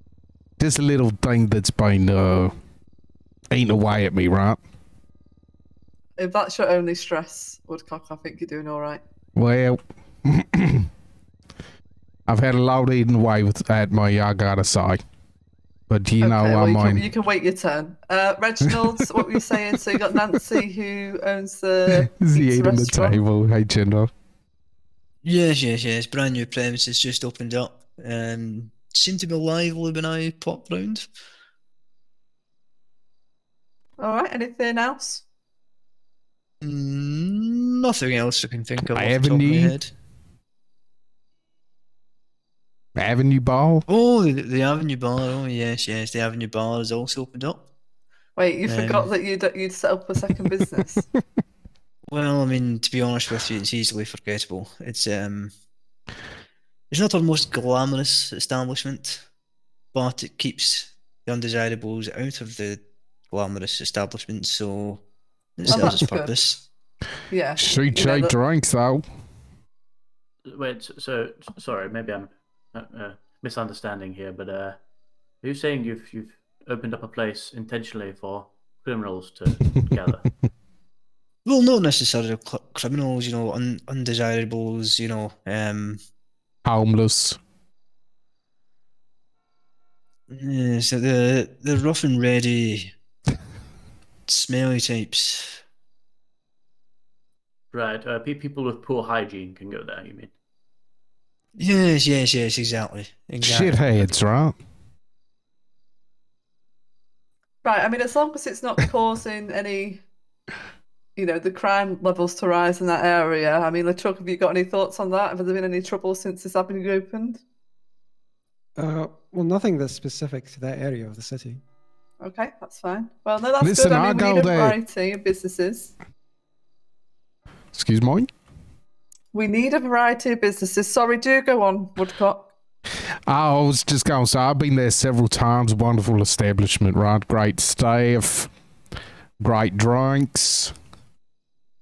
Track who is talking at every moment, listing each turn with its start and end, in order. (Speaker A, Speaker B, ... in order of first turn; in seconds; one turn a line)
Speaker A: 0.6-2.5
Speaker A: 3.5-4.6
Speaker B: 6.2-9.0
Speaker A: 9.3-10.9
Speaker A: 12.3-15.0
Speaker A: 15.9-17.1
Speaker B: 16.2-23.2
Speaker A: 21.9-24.1
Speaker C: 25.2-31.1
Speaker B: 34.0-35.2
Speaker C: 36.6-39.9
Speaker A: 38.9-39.8
Speaker A: 43.0-43.9
Speaker C: 43.9-47.6
Speaker B: 48.4-51.0
Speaker C: 48.6-49.1
Speaker C: 52.1-55.5
Speaker C: 56.9-59.2
Speaker C: 59.9-65.0
Speaker C: 65.6-66.6
Speaker B: 65.7-66.3
Speaker B: 67.3-68.3
Speaker A: 67.6-69.0
Speaker D: 70.5-74.8
Speaker D: 75.4-80.2
Speaker C: 81.5-86.0
Speaker A: 86.7-87.4
Speaker C: 90.3-92.9
Speaker C: 94.3-95.6
Speaker D: 97.7-100.3
Speaker C: 101.6-103.8
Speaker A: 103.4-104.6
Speaker B: 107.6-110.0
Speaker B: 111.2-117.4
Speaker E: 118.8-121.6
Speaker B: 122.2-125.9
Speaker A: 123.6-124.8
Speaker A: 127.7-128.3
Speaker B: 129.3-132.5
Speaker A: 133.3-138.5
Speaker A: 139.4-140.7